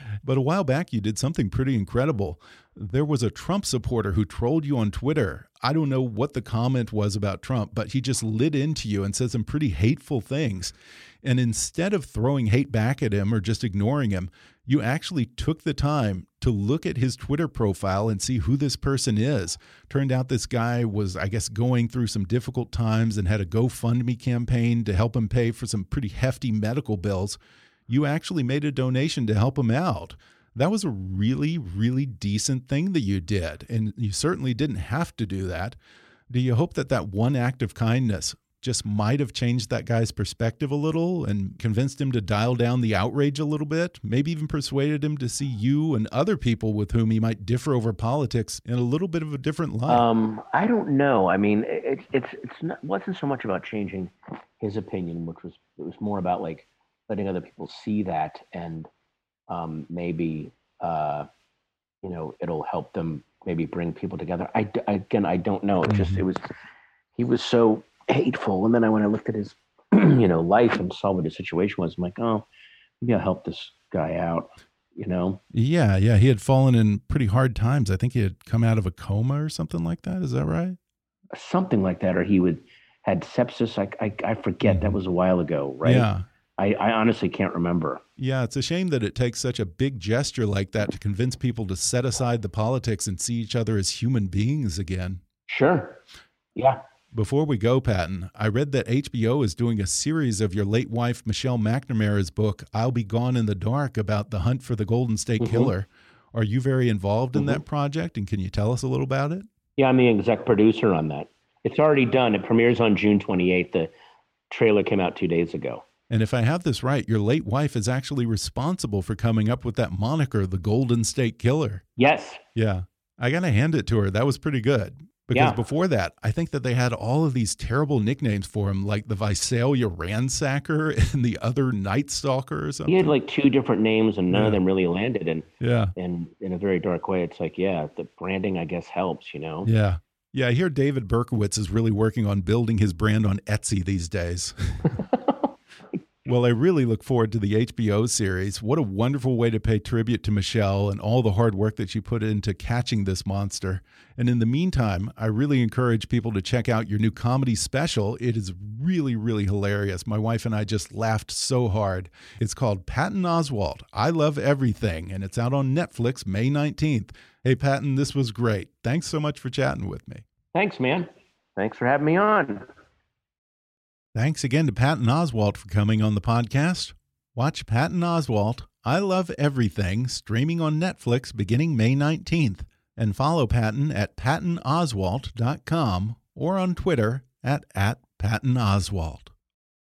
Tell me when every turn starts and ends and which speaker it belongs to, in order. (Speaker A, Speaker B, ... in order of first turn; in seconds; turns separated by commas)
Speaker A: 0.2-35.8, Speaker A: 36.3-50.1, Speaker B: 49.9-58.9, Speaker B: 59.5-61.3, Speaker B: 62.0-66.5, Speaker A: 65.9-66.2, Speaker B: 67.2-72.5, Speaker B: 73.0-75.4, Speaker A: 75.5-80.8, Speaker B: 81.3-88.0, Speaker A: 84.6-85.0, Speaker A: 85.8-86.3, Speaker A: 88.2-95.2, Speaker B: 95.5-96.0, Speaker A: 97.1-109.5, Speaker B: 105.4-105.7, Speaker B: 107.3-107.6, Speaker B: 109.8-113.9, Speaker B: 114.5-115.8, Speaker A: 116.1-121.8, Speaker B: 122.0-122.4, Speaker A: 122.5-133.1, Speaker B: 125.3-125.6, Speaker B: 132.9-139.7, Speaker A: 134.3-134.6, Speaker A: 135.6-135.9, Speaker A: 139.6-144.9, Speaker B: 144.8-146.0, Speaker A: 146.3-170.2, Speaker B: 170.5-172.7, Speaker A: 174.2-189.3